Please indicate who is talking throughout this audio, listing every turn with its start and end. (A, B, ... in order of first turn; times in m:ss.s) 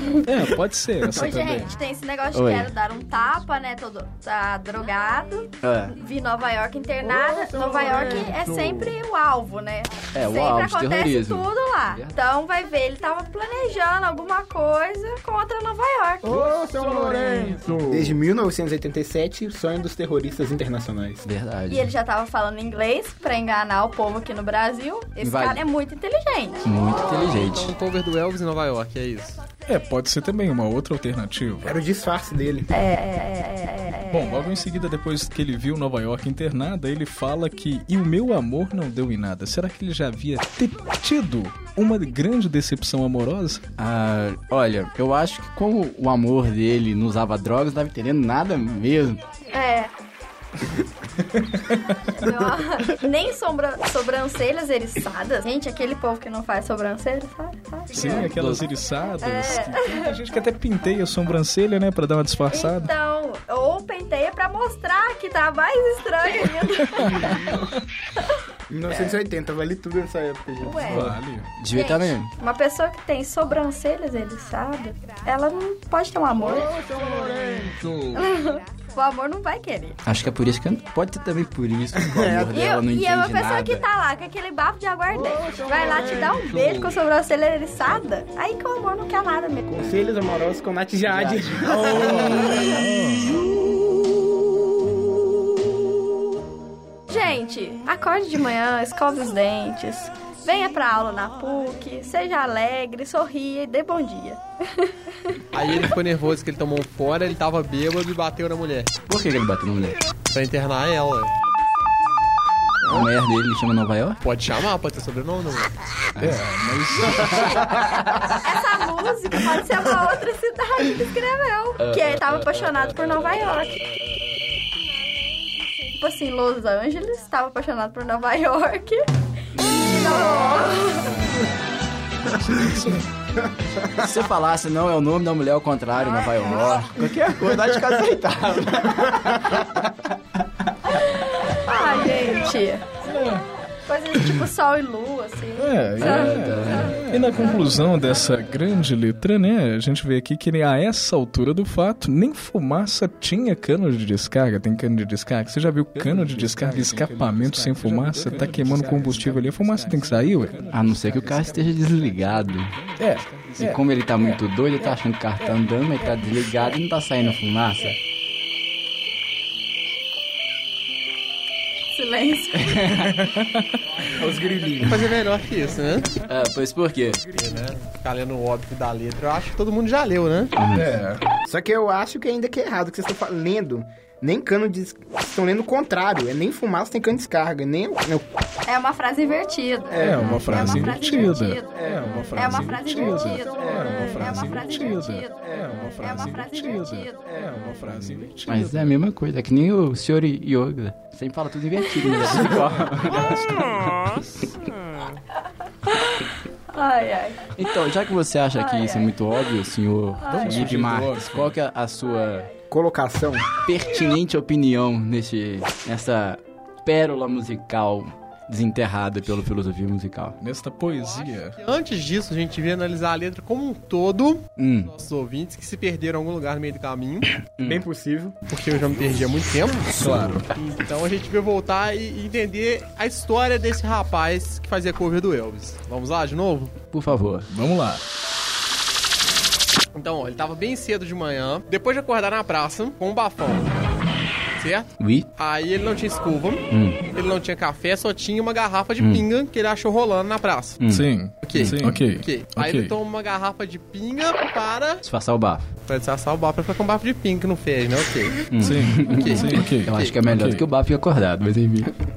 0:00.3-0:01.7 A
0:01.0-0:16.5 B
0:02.3-0:02.7 C
0:05.6-0:06.0 C
0:10.1-0:12.2 C
0:17.9-0:21.2 D
0:21.2-0:21.9 C
0:21.7-0:26.7 B
0:25.2-0:25.6 C
0:26.6-0:27.7 C
0:27.2-0:29.4 E
0:29.7-0:31.8 A
0:31.6-0:32.7 D
0:32.7-0:34.4 B
0:34.1-0:43.6 A
0:43.8-0:49.2 C
0:49.5-0:49.9 B
0:51.4-0:52.0 A
0:52.0-0:58.3 B
0:57.9-1:02.9 A
0:58.1-0:58.7 C
0:59.2-1:00.2 B
1:02.5-1:07.6 B
1:07.0-1:07.3 A
1:08.7-1:11.1 D
1:10.6-1:11.1 B
1:10.9-1:11.5 A
1:11.6-1:12.3 C
1:11.7-1:16.8 B
1:18.1-1:20.0 B
1:20.0-1:23.9 C
1:22.1-1:22.5 D
1:22.5-1:29.7 B
1:29.7-1:32.9 D
1:31.0-1:32.6 C
1:32.1-1:33.4 A
1:37.1-1:45.4 B
1:45.5-1:49.0 E
1:49.1-1:50.0 C
1:50.3-1:51.3 E
1:52.8-1:54.2 C
1:54.2-1:55.7 E
1:56.2-1:56.4 C
1:56.2-1:57.8 A
1:57.3-1:58.0 C
1:58.4-2:03.8 B
2:01.8-2:02.2 C
2:06.0-2:11.2 B
2:11.1-2:11.5 C
2:14.0-2:20.1 C
2:21.0-2:23.0 B
2:23.0-2:23.4 A
2:23.9-2:26.9 B
2:25.6-2:43.8 A
2:26.0-2:27.4 C
2:36.0-2:39.5 C
2:40.7-2:42.8 C
2:43.6-2:48.0 C
2:51.9-2:53.0 B
2:52.6-2:53.3 C
2:53.2-2:53.7 A
2:54.1-2:55.1 D
2:54.8-2:56.1 E
2:56.3-2:57.2 C
2:57.3-2:57.6 D
2:57.3-3:00.5 E
3:00.6-3:01.0 C
3:00.7-3:01.2 A
3:01.5-3:08.3 D
3:08.7-3:17.2 B
3:10.0-3:18.9 A
3:10.2-3:10.9 C
3:18.5-3:24.3 C
3:21.9-3:22.1 B
3:22.5-3:24.2 A
3:25.9-3:27.6 B
3:27.6-3:32.5 C
3:28.6-3:29.1 B
3:30.3-3:31.6 A
3:32.7-3:33.5 D
3:33.6-3:40.4 C
3:40.4-3:41.6 A
3:41.0-3:47.4 E
3:44.6-3:44.9 C
3:47.6-3:47.9 C
3:47.6-3:48.4 D
3:48.5-3:56.8 E
3:49.9-3:50.5 A
3:56.9-3:57.5 C
3:57.5-3:58.0 A
3:59.9-4:03.7 E
4:04.6-4:10.8 E
4:05.0-4:05.3 C
4:06.7-4:07.0 C
4:09.0-4:09.2 C
4:10.8-4:11.8 C
4:10.9-4:12.9 A
4:11.4-4:15.0 E
4:15.0-4:15.7 C
4:15.9-4:18.5 E
4:18.5-4:22.0 C
4:18.6-4:20.6 A
4:19.0-4:20.2 E